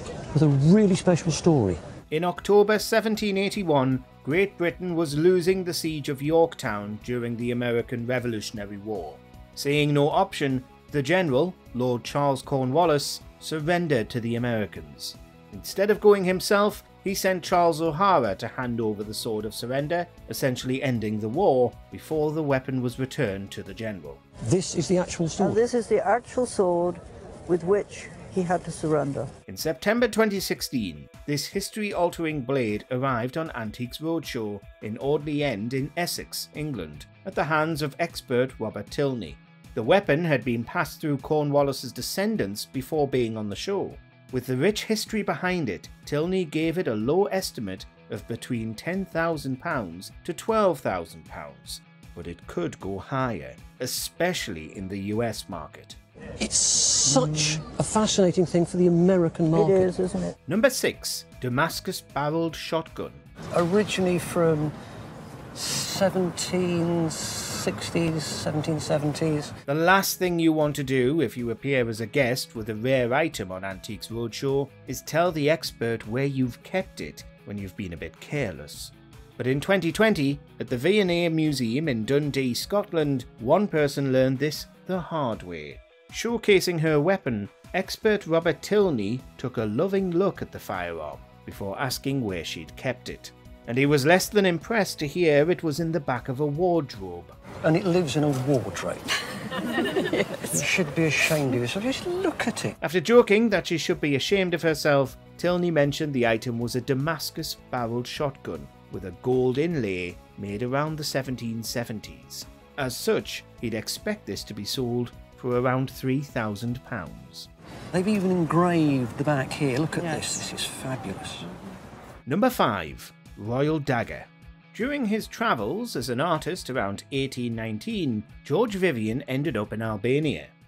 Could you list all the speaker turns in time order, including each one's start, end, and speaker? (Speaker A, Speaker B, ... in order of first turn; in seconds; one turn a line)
Speaker A: 0.3-1.8
Speaker B: 2.1-24.2
Speaker A: 24.5-25.6
Speaker C: 25.4-29.3
Speaker B: 29.5-56.0
Speaker A: 56.4-59.9
Speaker C: 59.5-60.4
Speaker B: 60.5-63.2
Speaker A: 63.5-64.7
Speaker A: 65.5-69.5
Speaker B: 69.7-97.3
Speaker A: 97.6-99.1
Speaker A: 100.1-102.8
Speaker B: 102.8-117.5
Speaker A: 117.9-121.5
Speaker B: 122.3-130.5